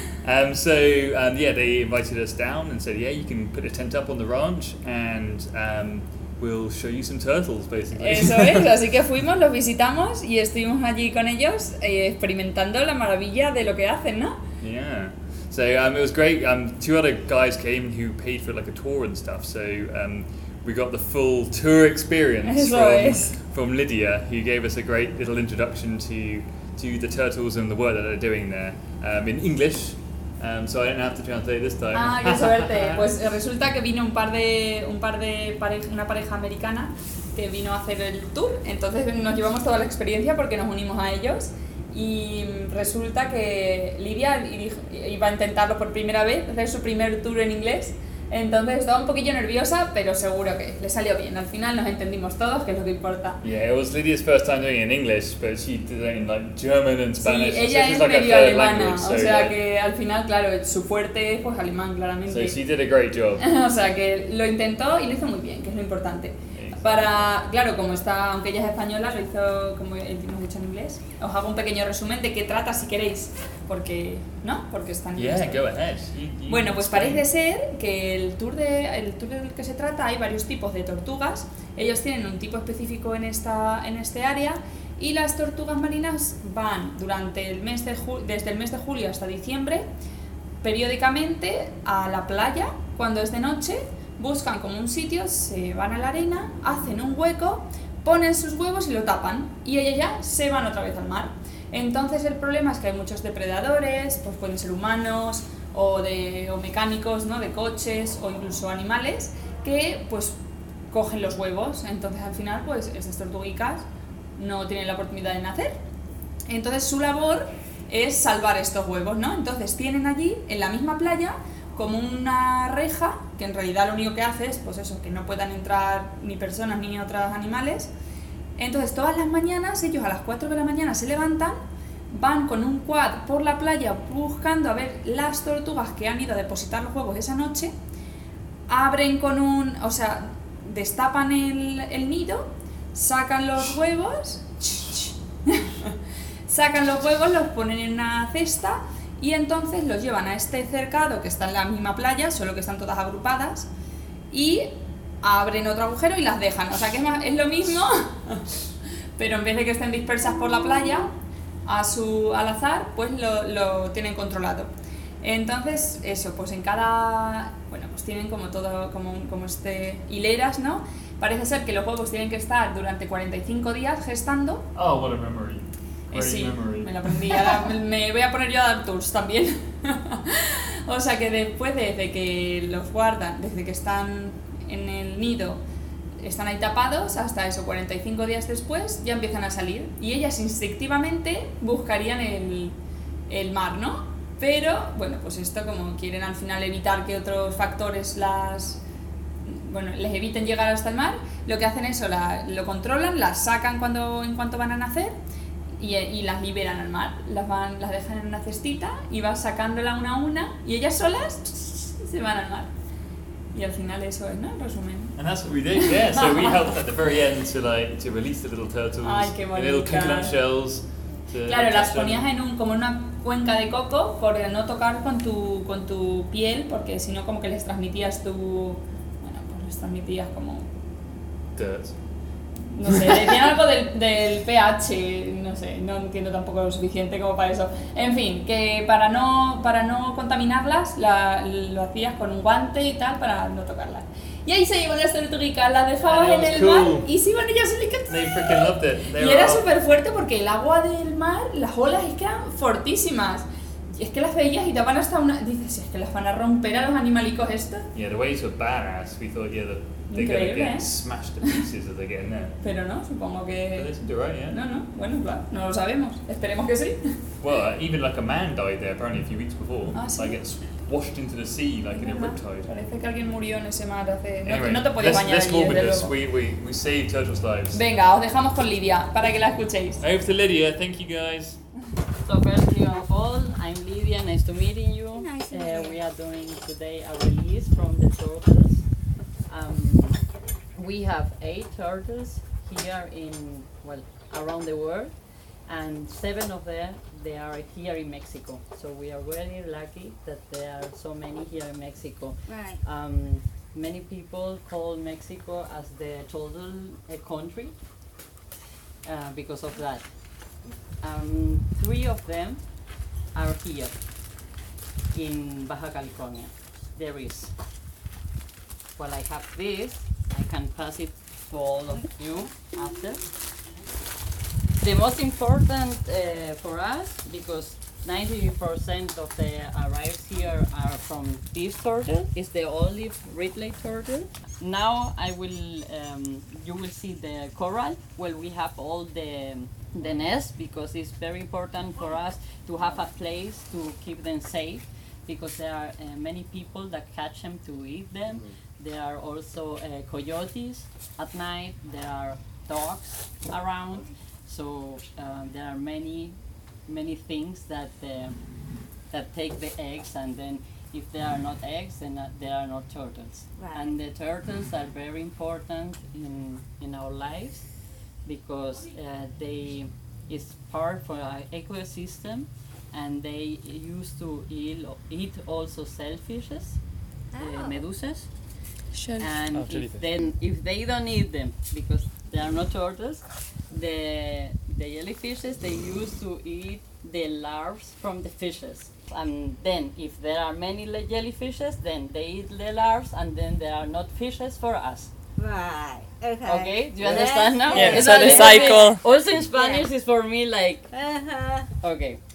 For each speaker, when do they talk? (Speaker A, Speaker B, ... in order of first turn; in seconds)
Speaker A: 0.2-8.7, 14.6-33.1, 53.4-59.6, 62.3-63.4, 66.5-67.3, 75.2-77.3, 174.8-177.6, 215.2-222.3, 231.6-232.0, 232.9-233.3, 246.0-247.1, 248.1-249.7, 257.9-262.6, 263.8-264.6, 267.4-272.7, 274.4-277.8, 280.0-281.6, 379.5-380.1
Speaker B: 8.0-14.4, 22.4-23.4, 31.9-53.4, 57.2-62.6, 63.4-75.7, 76.5-89.9, 90.6-110.4, 110.9-113.9, 114.4-115.8, 116.5-127.9, 128.6-131.6, 132.1-137.7, 138.7-145.9, 146.5-153.7, 154.3-158.5, 159.2-161.1, 161.7-164.7, 165.2-174.7, 176.1-185.6, 186.2-192.8, 193.3-198.8, 199.4-205.2, 205.8-212.7, 213.5-215.2, 215.8-216.7, 219.0-220.4, 221.5-230.7, 232.7-257.9, 260.1-260.9, 262.6-263.9, 264.5-267.1, 269.9-270.4, 271.9-276.1, 277.7-280.0, 378.9-379.3, 397.7-399.0
Speaker C: 282.2-288.8, 289.5-290.2, 290.8-295.1, 295.7-307.8, 309.1-310.1, 311.0-312.6, 313.3-313.9, 315.1-317.5, 319.0-323.2, 324.8-358.4, 359.1-367.7, 368.2-376.8, 377.4-378.3, 379.2-395.1, 396.4-400.9, 401.8-402.2
Speaker D: 285.1-286.1, 302.5-302.8, 363.6-364.0, 377.3-377.9, 395.4-399.9, 400.9-401.7